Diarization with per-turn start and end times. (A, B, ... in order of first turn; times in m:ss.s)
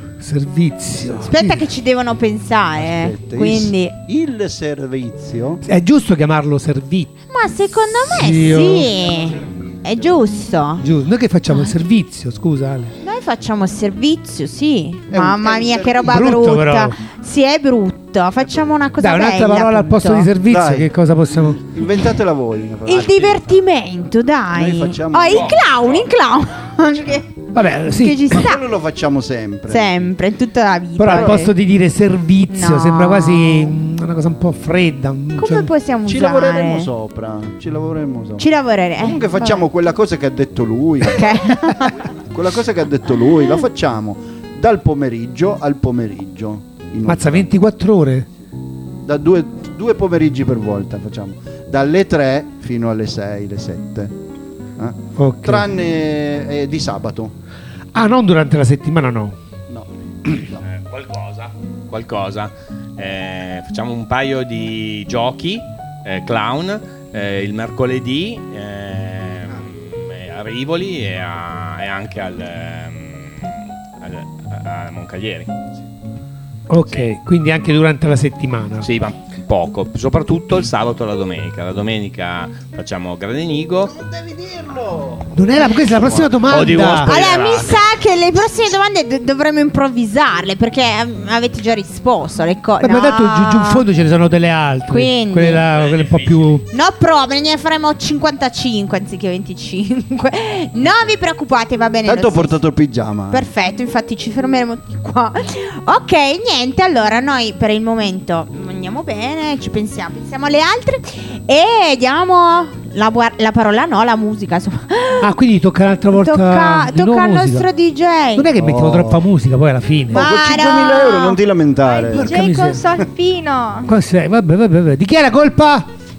0:00.2-0:01.6 A
0:01.0-0:01.3 B
0:01.3-0:04.0 C
0:02.8-0:05.6 B
0:05.6-0:07.1 A
0:07.3-0:10.8 C
0:07.9-0:08.9 A
0:09.0-0:10.2 B
0:10.8-0:12.9 A
0:13.0-0:20.3 C
0:15.1-0:16.3 B
0:16.0-0:17.0 A
0:19.0-0:21.6 A
0:20.5-0:20.9 B
0:21.4-0:23.5 B
0:22.9-0:28.6 C
0:24.5-0:25.6 B
0:25.3-0:26.0 D
0:27.5-0:28.3 A
0:28.3-0:29.9 B
0:29.7-0:31.5 C
0:31.0-0:35.7 A
0:31.1-0:31.4 B
0:32.5-0:33.8 C
0:35.4-0:36.9 C
0:36.0-0:41.3 B
0:38.4-0:39.6 C
0:41.1-0:42.0 C
0:42.2-0:47.5 B
0:47.1-0:48.3 A
0:49.0-0:54.2 B
0:54.8-0:57.3 B
0:55.2-0:55.7 A
0:57.9-0:59.4 A
0:59.7-1:00.6 B
1:00.6-1:15.5 D
1:16.7-1:18.9 A
1:18.8-1:23.9 D
1:23.9-1:26.3 B
1:25.3-1:27.1 A
1:26.4-1:27.9 D
1:27.1-1:33.8 C
1:32.8-1:36.6 A
1:34.9-1:35.7 C
1:35.8-1:36.5 D
1:36.7-1:42.6 C
1:42.0-1:43.4 B
1:43.3-1:55.3 C
1:55.2-1:57.7 A
1:56.1-1:58.5 C
1:58.4-2:00.2 A
1:58.6-1:59.2 B
2:00.1-2:02.3 B
2:00.1-2:01.4 C
2:01.9-2:03.9 E
2:02.1-2:02.8 A
2:03.9-2:05.9 A